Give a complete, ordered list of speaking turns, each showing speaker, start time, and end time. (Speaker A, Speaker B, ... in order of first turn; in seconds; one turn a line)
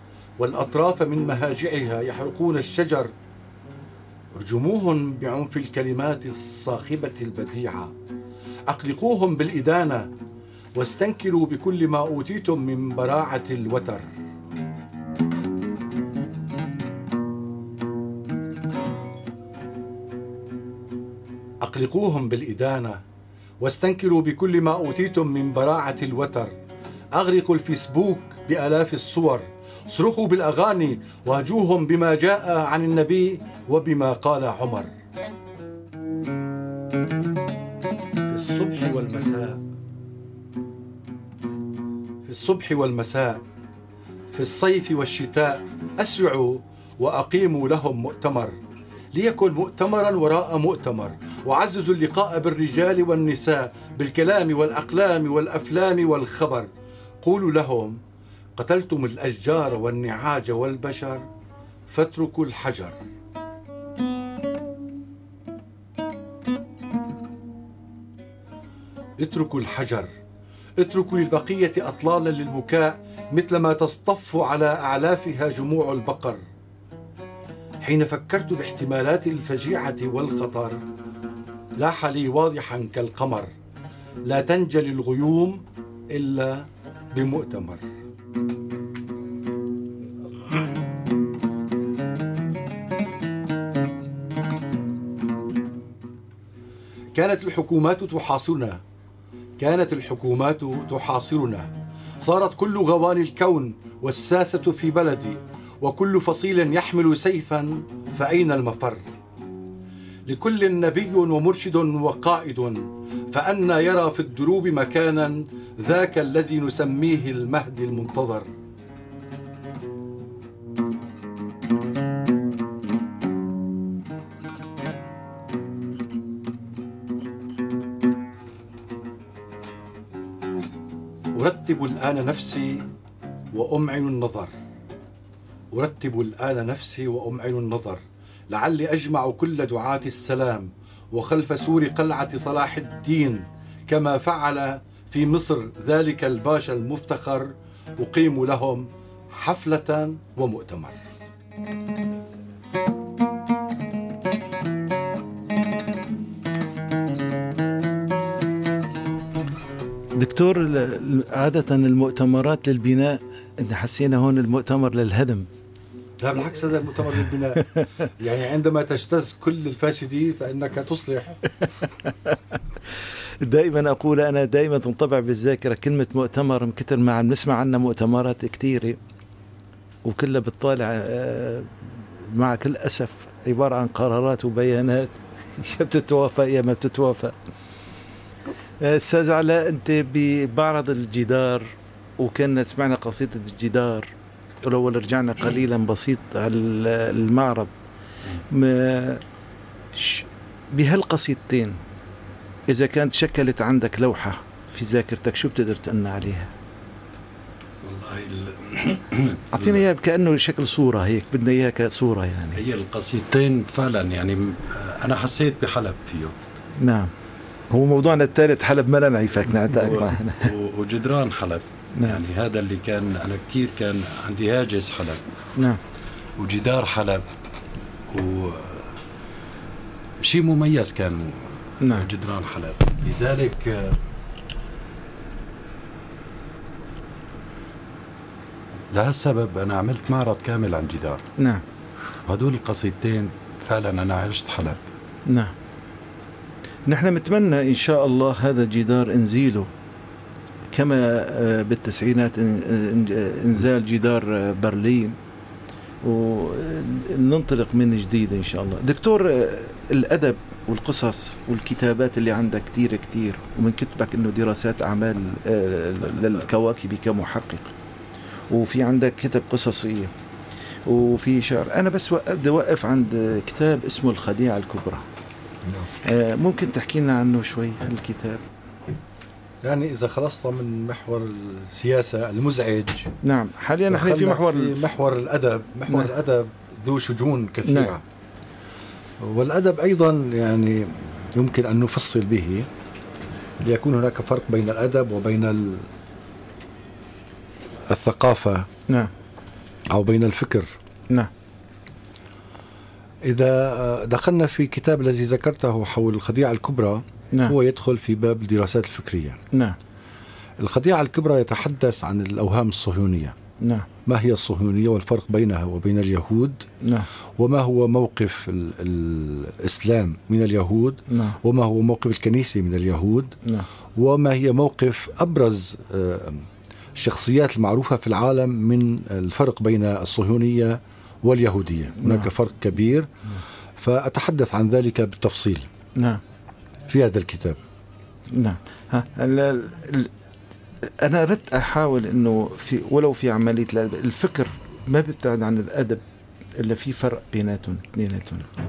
Speaker A: 0.4-3.1
Speaker A: 4.3-7.9
Speaker A: 8.7-10.1
Speaker A: 10.7-14.1
Speaker A: 21.6-23.0
Speaker A: 23.6-26.5
Speaker A: 27.1-34.9
Speaker A: 38.2-39.6
Speaker A: 42.2-43.4
Speaker A: 44.3-48.5
Speaker A: 49.1-56.7
Speaker A: 57.2-58.0
Speaker A: 58.5-61.2
Speaker A: 61.9-63.0
Speaker A: 69.2-70.1
Speaker A: 70.8-76.4
Speaker A: 77.8-80.8
Speaker A: 81.8-83.5
Speaker A: 84.2-87.8
Speaker A: 97.1-98.8
Speaker A: 99.6-101.7
Speaker A: 102.2-109.1
Speaker A: 110.3-118.5
Speaker A: 131.3-132.9
Speaker A: 133.5-134.5
Speaker A: 135.7-151.0
Speaker B: 160.1-165.5
Speaker A: 166.2-171.8
Speaker B: 172.0-172.4
Speaker B: 172.9-179.0
Speaker B: 180.0-187.3
Speaker B: 188.8-194.1
Speaker B: 194.6-197.7
Speaker B: 198.5-199.2
Speaker B: 199.9-201.8
Speaker B: 202.7-206.5
Speaker C: 207.8-209.8
Speaker B: 209.5-212.6
Speaker C: 212.5-216.3
Speaker B: 216.8-217.1
Speaker B: 217.7-220.5
Speaker C: 219.6-225.2
Speaker C: 226.4-227.2
Speaker C: 228.1-229.0
Speaker C: 230.2-234.0
Speaker B: 231.8-232.1
Speaker C: 238.9-241.2
Speaker B: 241.4-241.6
Speaker C: 242.3-244.8
Speaker B: 245.2-245.5
Speaker B: 246.8-249.7
Speaker B: 250.7-255.2
Speaker B: 256.0-267.7
Speaker B: 268.5-270.1
Speaker B: 270.9-275.1
Speaker B: 276.0-278.4
Speaker A: 279.6-283.1
Speaker B: 283.2-284.9
Speaker A: 283.9-288.0
Speaker B: 287.6-287.9
Speaker A: 289.2-292.7
Speaker A: 293.6-295.9
Speaker A: 297.9-298.7
Speaker A: 299.9-300.7
Speaker A: 303.2-309.4
Speaker B: 309.5-309.8
Speaker A: 310.6-313.4
Speaker B: 313.6-313.9
Speaker A: 314.0-316.7
Speaker B: 316.8-317.1
Speaker A: 317.4-323.4
Speaker B: 321.1-321.4
Speaker A: 323.9-326.4
Speaker A: 326.9-333.1
Speaker B: 332.0-332.3
Speaker A: 333.8-335.6
Speaker B: 336.0-336.2
Speaker A: 336.9-337.6
Speaker B: 338.3-340.1
Speaker B: 340.9-346.0
Speaker B: 346.6-348.5